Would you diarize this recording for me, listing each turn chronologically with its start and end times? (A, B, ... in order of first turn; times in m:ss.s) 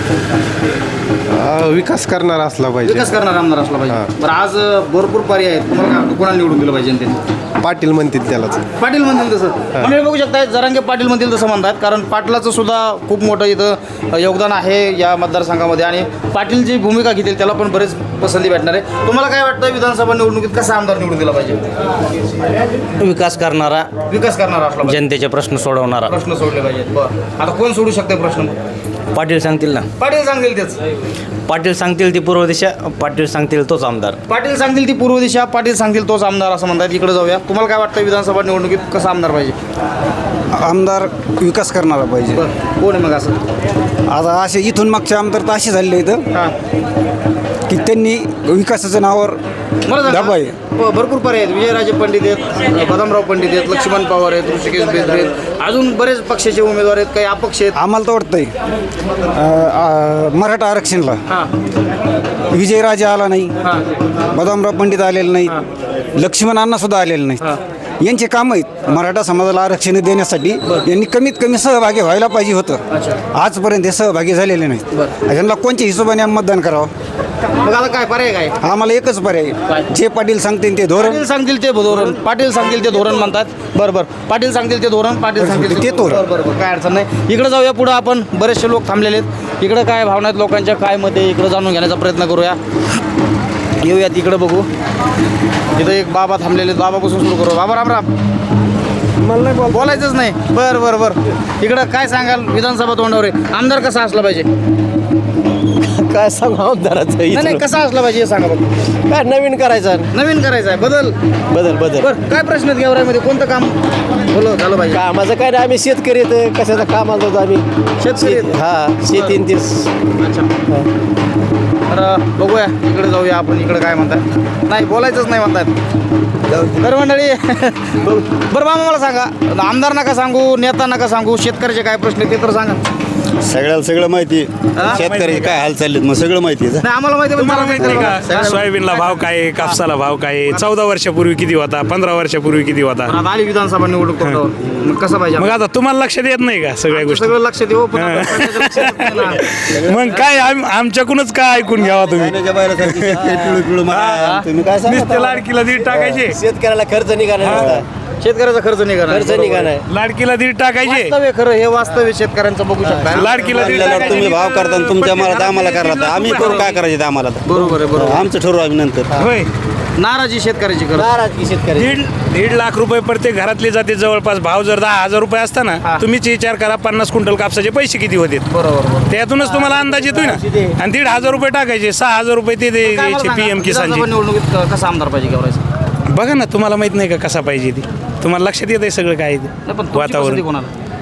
0:01.3-0:03.1 A
0:02.8-0:07.2 B
0:07.6-0:08.6 A
0:08.8-0:21.6 B
0:23.0-0:23.9 C
0:24.1-0:25.0 B
0:24.9-0:26.0 C
0:26.1-0:28.5 B
0:29.2-0:29.8 C
0:30.0-0:30.8 B
0:31.5-0:34.2 C
0:34.3-0:39.6 B
0:40.5-0:42.4 D
0:42.4-0:43.4 B
0:44.1-0:46.2 D
0:47.7-0:49.4 D
0:49.9-0:57.8 B
0:50.0-0:50.6 D
0:57.8-0:58.5 D
0:59.3-1:01.2 D
1:02.5-1:03.6 D
1:04.3-1:05.6 D
1:06.2-1:07.4 D
1:08.0-1:12.8 D
1:12.9-1:13.2 B
1:13.3-1:16.9 D
1:17.6-1:18.6 B
1:18.6-1:21.2 D
1:21.0-1:32.6 B
1:25.4-1:26.2 D
1:33.8-1:34.7 B
1:35.8-1:38.1 B
1:39.7-1:44.5 B
1:46.0-1:47.4 E
1:47.3-1:48.7 B
1:49.1-1:50.1 E
1:50.1-1:51.2 B
1:51.6-1:52.0 E
1:52.0-1:55.0 B
1:55.0-1:57.6 E
1:58.0-1:58.6 B
1:58.2-1:59.8 E
1:59.1-1:59.4 B
2:00.2-2:00.5 B
2:01.9-2:05.7 B
2:06.8-2:12.8 B
2:13.4-2:16.8 F
2:14.8-2:15.6 B
2:14.9-2:15.4 G
2:16.8-2:19.8 B
2:17.4-2:23.1 G
2:23.1-2:25.6 B
2:25.4-2:27.3 G
2:26.9-2:29.4 B
2:28.0-2:33.3 G
2:32.2-2:34.9 F
2:33.9-2:36.4 G
2:34.2-2:34.4 B
2:35.9-2:37.8 E
2:37.4-2:37.8 G
2:38.2-2:39.7 B
2:39.1-2:39.8 E
2:39.9-2:41.1 G
2:40.8-2:43.3 B
2:43.1-2:46.8 G
2:43.8-2:47.4 F
2:46.3-2:46.8 B
2:47.4-2:48.3 B
2:48.1-2:49.0 F
2:49.2-2:49.5 G
2:50.0-2:51.1 B
2:51.0-2:51.8 E
2:51.8-2:58.4 G
2:58.5-2:59.1 B
2:59.1-3:04.1 G
3:02.8-3:05.6 B
3:06.1-3:10.4 G
3:09.7-3:10.7 B